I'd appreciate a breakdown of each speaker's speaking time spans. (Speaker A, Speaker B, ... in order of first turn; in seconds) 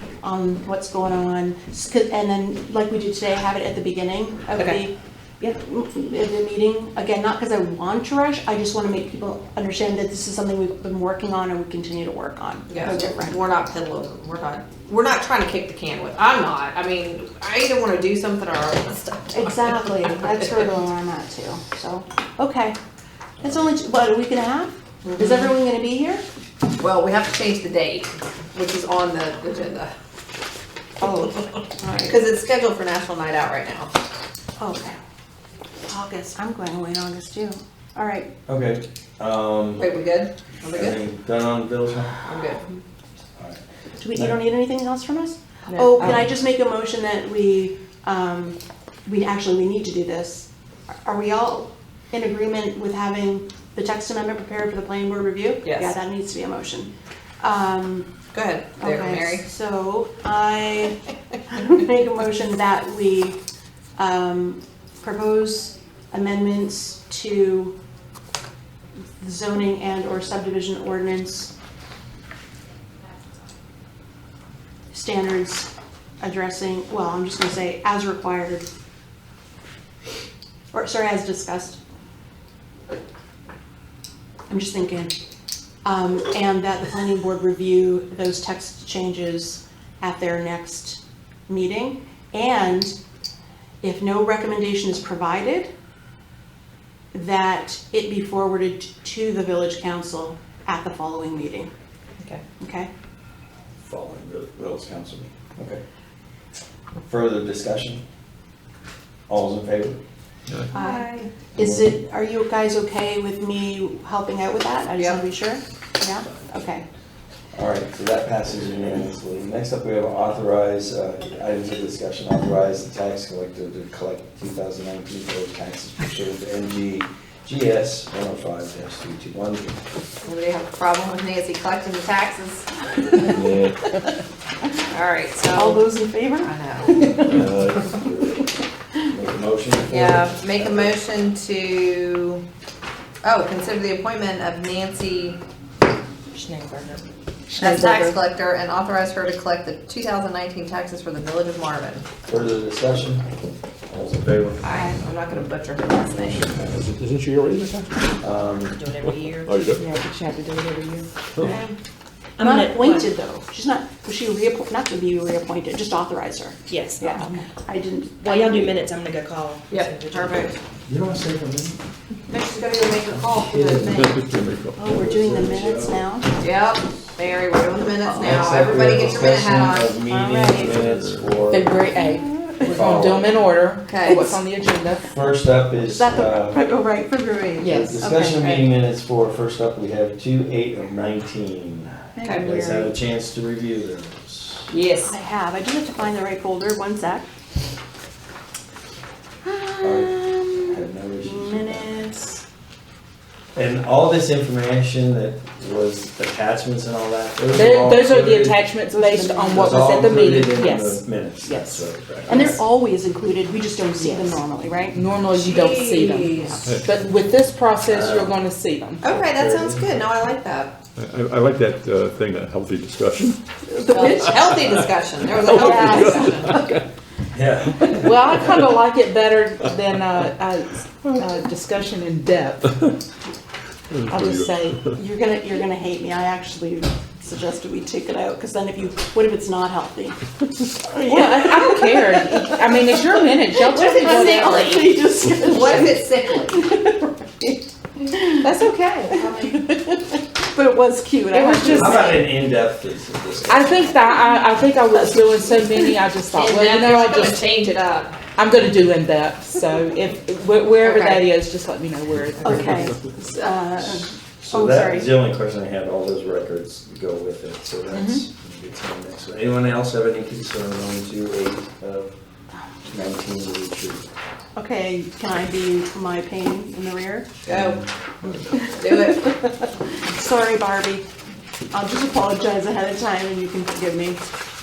Speaker A: 0.2-13.4, 19.3-22.8, 23.4-26.2, 31.0-32.2, 34.6-35.0, 35.9-38.3, 44.0-50.5, 51.0-58.1, 58.8-63.4, 64.0-67.8, 69.2-71.5, 74.9-75.7, 76.2-78.7, 80.7-81.8, 84.5-85.1, 85.8-92.9, 93.8-95.7, 97.1-101.7, 102.6-102.9, 110.7-116.8, 135.5-137.5, 162.4-168.7, 174.8-176.3, 178.0-178.6, 180.1-180.8, 182.0-182.8, 185.8-188.6, 192.2-193.0, 195.0-197.3, 199.4-200.7, 201.2-202.4, 208.9-209.8, 212.3-215.0, 223.7-224.4, 225.5-226.7, 234.9-242.9, 243.6-248.4, 249.2-252.3, 262.4-265.1, 274.6-277.3, 278.9-279.6, 280.1-281.1, 281.7-284.2
Speaker B: 4.5-4.8, 12.7-20.2, 25.0-25.5, 26.8-29.9, 31.3-33.9, 39.8-41.0, 42.2-42.7, 55.6-56.0, 58.3-59.5, 110.7-111.3, 114.9-115.2, 130.2-133.4, 134.8-135.9, 136.4-137.0, 139.9-142.4, 143.2-145.4, 147.6-152.1, 154.6-156.5, 169.7-170.6, 172.3-174.2, 176.4-180.0, 183.8-184.3, 187.6-188.6, 192.2-192.5, 194.7-195.1, 215.3-216.6, 219.0-220.8, 223.9-226.6, 243.7-246.6, 249.0-249.6, 256.3-258.2, 260.8-261.2, 277.4-277.8, 278.6-279.3
Speaker C: 38.5-39.9, 40.7-42.2, 43.4-43.6, 46.0-46.2, 103.8-105.8, 107.0-108.0, 109.3-110.0, 111.6-111.9, 117.5-129.8, 133.2-133.7, 137.2-138.4, 139.1-141.0, 152.3-153.2, 153.9-154.6, 158.2-158.8, 170.8-171.8, 173.1-174.2, 174.9-176.0, 178.2-181.8, 182.7-183.4, 185.1-186.7, 187.6-194.7, 199.8-201.9, 203.5-208.7, 209.5-212.5, 217.8-218.3, 219.1-220.0, 227.3-228.6, 251.7-253.9, 263.9-272.1, 272.9-274.0, 277.5-277.8
Speaker D: 45.7-46.2, 147.5-148.2, 159.8-161.5, 181.5-185.1, 207.5-212.6, 213.9-214.4, 214.9-219.1, 227.9-232.8, 234.1-234.8, 241.0-244.9, 248.4-249.2, 251.3-252.2, 253.5-257.6, 258.3-263.0
Speaker E: 146.3-147.0, 158.3-159.7, 162.4-163.1, 166.7-167.3, 168.2-170.5
Speaker F: 156.3-158.2, 159.0-159.9, 173.9-175.0, 180.4-181.4, 216.6-217.1, 220.9-223.4, 224.0-226.9, 227.9-228.6, 233.9-235.0